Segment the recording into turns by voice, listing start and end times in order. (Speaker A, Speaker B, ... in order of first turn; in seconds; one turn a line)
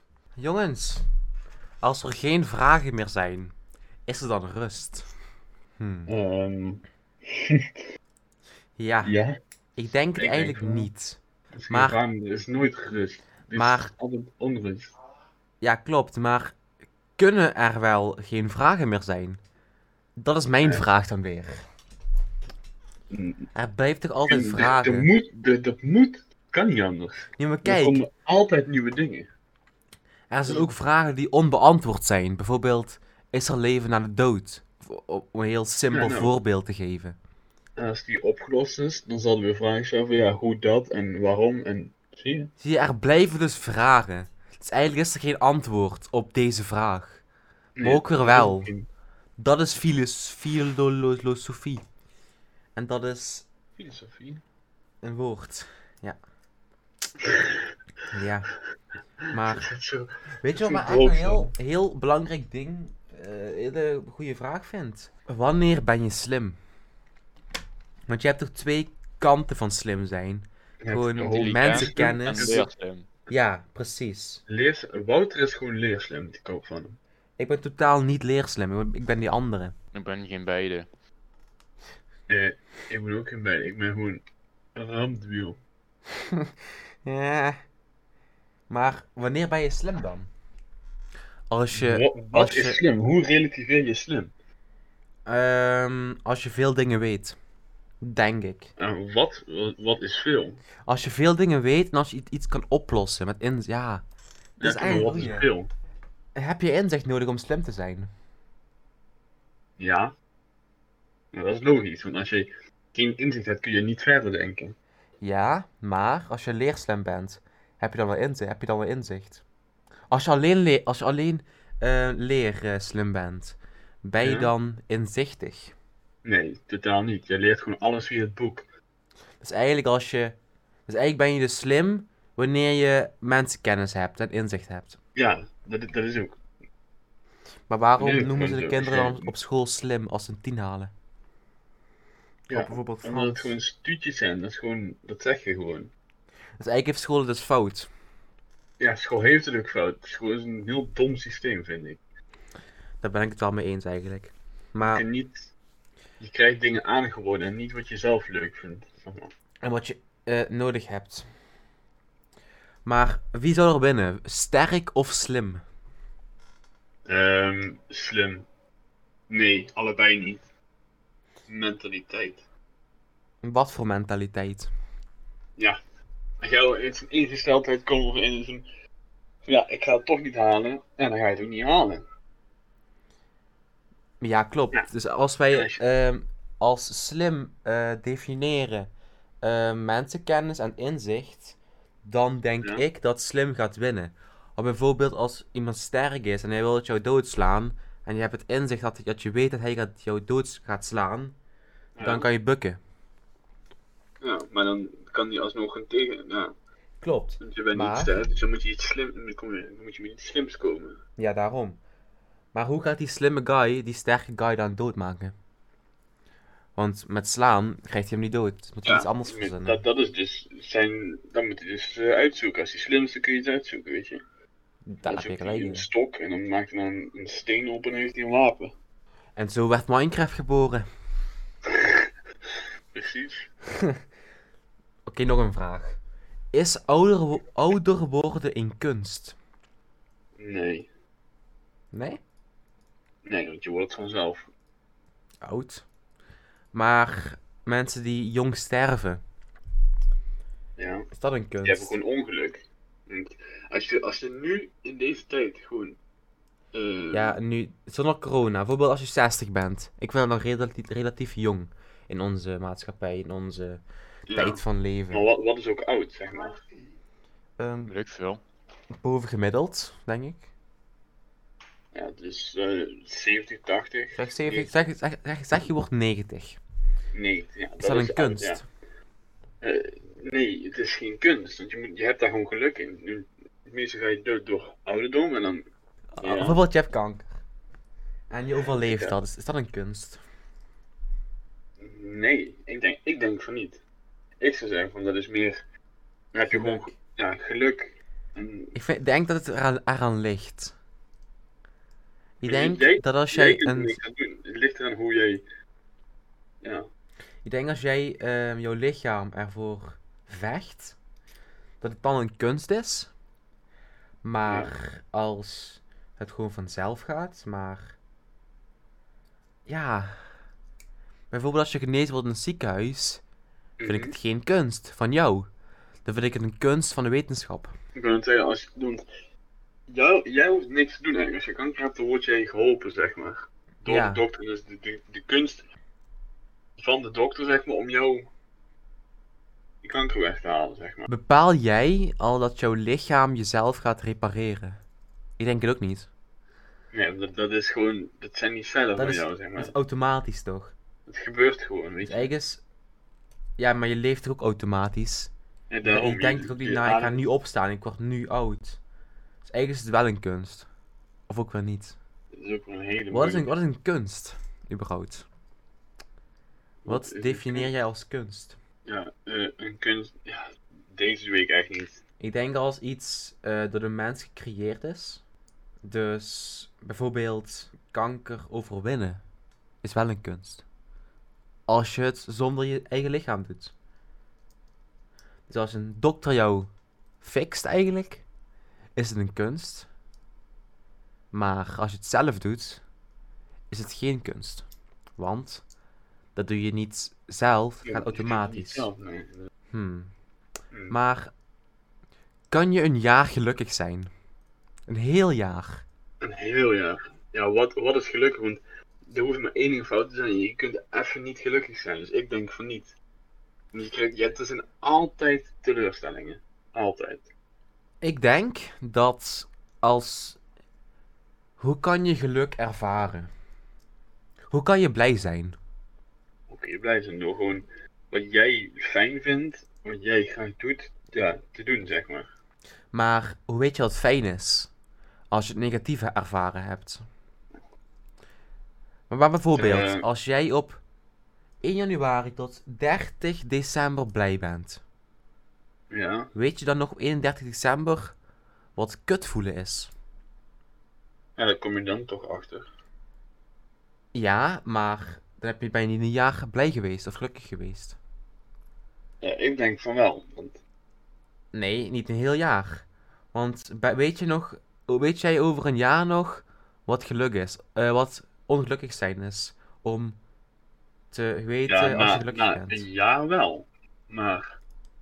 Speaker A: 0.4-1.1
Speaker A: 1.8-3.5
Speaker A: 4.1-5.1
Speaker A: 5.8-6.1
Speaker B: 6.1-7.7
Speaker A: 8.8-9.2
Speaker B: 9.0-9.4
Speaker A: 9.8-12.0
Speaker B: 10.2-10.9
Speaker B: 11.5-14.9
Speaker A: 13.5-13.9
Speaker A: 15.6-16.6
Speaker A: 17.2-19.4
Speaker A: 20.2-21.6
Speaker B: 23.1-23.5
Speaker A: 23.6-25.1
Speaker B: 24.3-29.3
Speaker A: 27.4-28.0
Speaker A: 30.3-37.2
Speaker B: 35.9-36.3
Speaker B: 37.8-42.5
Speaker A: 42.6-47.2
Speaker B: 47.8-48.9
Speaker A: 47.8-48.7
Speaker A: 49.4-51.9
Speaker A: 52.8-53.5
Speaker B: 53.8-54.4
Speaker A: 55.0-56.2
Speaker B: 57.2-57.7
Speaker A: 58.1-58.5
Speaker B: 59.2-61.5
Speaker A: 59.3-59.7
Speaker A: 60.4-66.6
Speaker A: 68.1-72.6
Speaker B: 70.8-72.7
Speaker C: 71.2-73.1
Speaker A: 73.3-74.4
Speaker B: 74.5-77.0
Speaker A: 77.4-79.8
Speaker C: 79.9-80.9
Speaker B: 82.3-84.2
Speaker B: 84.8-85.6
Speaker A: 86.2-86.5
Speaker A: 87.0-87.6
Speaker A: 88.7-90.3
Speaker A: 91.5-92.8
Speaker B: 91.7-94.3
Speaker A: 95.3-97.4
Speaker A: 98.0-98.7
Speaker B: 98.8-100.6
Speaker A: 100.9-104.0
Speaker B: 104.6-105.7
Speaker A: 104.6-105.5
Speaker A: 106.4-108.1
Speaker B: 109.8-110.2
Speaker B: 111.3-114.8
Speaker A: 115.2-119.4
Speaker A: 120.1-125.8
Speaker B: 124.2-124.5
Speaker B: 126.2-128.7
Speaker A: 129.4-130.4
Speaker A: 130.9-135.0
Speaker B: 135.2-136.4
Speaker A: 137.7-140.9
Speaker B: 138.0-139.3
Speaker A: 142.5-143.6
Speaker B: 142.5-145.9
Speaker A: 146.6-147.9
Speaker B: 148.8-152.0
Speaker A: 153.0-155.1
Speaker B: 154.8-155.5
Speaker B: 156.2-159.3
Speaker A: 159.6-161.3
Speaker A: 162.8-165.6
Speaker B: 167.1-168.5
Speaker B: 169.3-170.4
Speaker B: 171.5-172.4
Speaker A: 173.4-174.7
Speaker B: 176.4-178.7
Speaker B: 179.4-182.1
Speaker A: 184.2-188.9
Speaker B: 185.5-185.8
Speaker A: 189.4-201.4
Speaker B: 202.0-202.3
Speaker A: 202.0-202.8
Speaker B: 204.2-206.6
Speaker A: 207.0-208.1
Speaker B: 207.4-211.0
Speaker A: 211.2-211.8
Speaker A: 212.5-215.3
Speaker A: 216.8-219.8
Speaker B: 218.8-224.2
Speaker A: 224.9-225.9
Speaker B: 225.1-228.7
Speaker A: 229.4-230.9
Speaker B: 231.7-232.1
Speaker B: 232.9-233.5
Speaker A: 233.7-234.0
Speaker A: 235.1-236.0
Speaker A: 236.5-239.4
Speaker B: 240.4-240.9
Speaker A: 241.9-242.2
Speaker B: 243.2-244.5
Speaker A: 245.4-245.8
Speaker A: 246.7-249.2
Speaker B: 250.8-251.1
Speaker A: 251.1-251.9
Speaker B: 251.6-256.0
Speaker B: 256.7-257.4
Speaker A: 257.1-263.8
Speaker B: 264.3-266.6
Speaker A: 264.3-265.3
Speaker A: 267.6-267.9
Speaker C: 267.9-268.4
Speaker A: 269.0-270.5
Speaker B: 271.9-274.7
Speaker A: 274.2-276.6
Speaker B: 277.1-278.6
Speaker A: 277.8-278.6
Speaker B: 279.6-285.7
Speaker A: 286.1-287.3
Speaker B: 286.2-286.6
Speaker A: 288.3-290.2
Speaker B: 288.9-289.1
Speaker B: 291.8-293.8
Speaker B: 294.4-295.6
Speaker B: 296.3-298.8
Speaker A: 296.4-296.9
Speaker A: 298.7-300.7
Speaker A: 302.4-304.0
Speaker B: 302.4-305.4
Speaker B: 306.6-306.9
Speaker A: 307.4-311.0
Speaker A: 311.8-313.1
Speaker A: 314.2-318.0
Speaker B: 314.5-314.7
Speaker A: 319.7-320.1
Speaker A: 321.3-323.2
Speaker B: 323.8-324.2
Speaker A: 323.9-325.5
Speaker A: 326.1-327.7
Speaker B: 327.9-329.1
Speaker B: 329.9-335.7
Speaker A: 333.9-334.2
Speaker B: 336.8-338.3
Speaker B: 339.8-341.1
Speaker A: 341.1-344.8
Speaker A: 345.4-346.1
Speaker B: 346.9-349.8
Speaker A: 349.0-350.7
Speaker B: 351.1-352.3
Speaker A: 352.0-352.6
Speaker A: 353.6-355.3
Speaker B: 355.7-357.2
Speaker A: 355.9-358.8
Speaker A: 359.4-360.7
Speaker A: 361.3-362.0
Speaker B: 362.3-363.5
Speaker A: 363.1-365.3
Speaker B: 366.8-367.7
Speaker A: 366.9-368.6
Speaker B: 368.9-372.0
Speaker A: 372.2-375.2
Speaker A: 375.8-379.2
Speaker A: 379.8-380.6
Speaker A: 381.7-383.7
Speaker A: 385.5-386.7
Speaker A: 387.2-388.2
Speaker A: 389.0-389.9
Speaker A: 391.3-392.8
Speaker A: 393.7-394.6
Speaker A: 395.2-395.6
Speaker A: 396.4-398.9
Speaker B: 397.8-399.5
Speaker A: 399.7-400.1
Speaker A: 400.9-401.3
Speaker A: 402.5-404.1
Speaker A: 404.9-405.8
Speaker B: 406.2-412.9
Speaker B: 413.7-417.3
Speaker A: 418.0-420.4
Speaker A: 421.6-423.3
Speaker A: 424.5-425.6
Speaker B: 426.5-432.3
Speaker A: 432.9-434.7
Speaker A: 435.3-437.1
Speaker A: 439.1-440.8
Speaker B: 439.6-440.1
Speaker A: 441.6-444.8
Speaker B: 445.9-446.3
Speaker A: 446.3-448.2
Speaker A: 448.8-449.9
Speaker B: 451.4-452.7
Speaker A: 454.1-458.0
Speaker B: 459.2-460.6
Speaker A: 461.5-470.2
Speaker A: 471.1-472.9
Speaker B: 471.7-474.6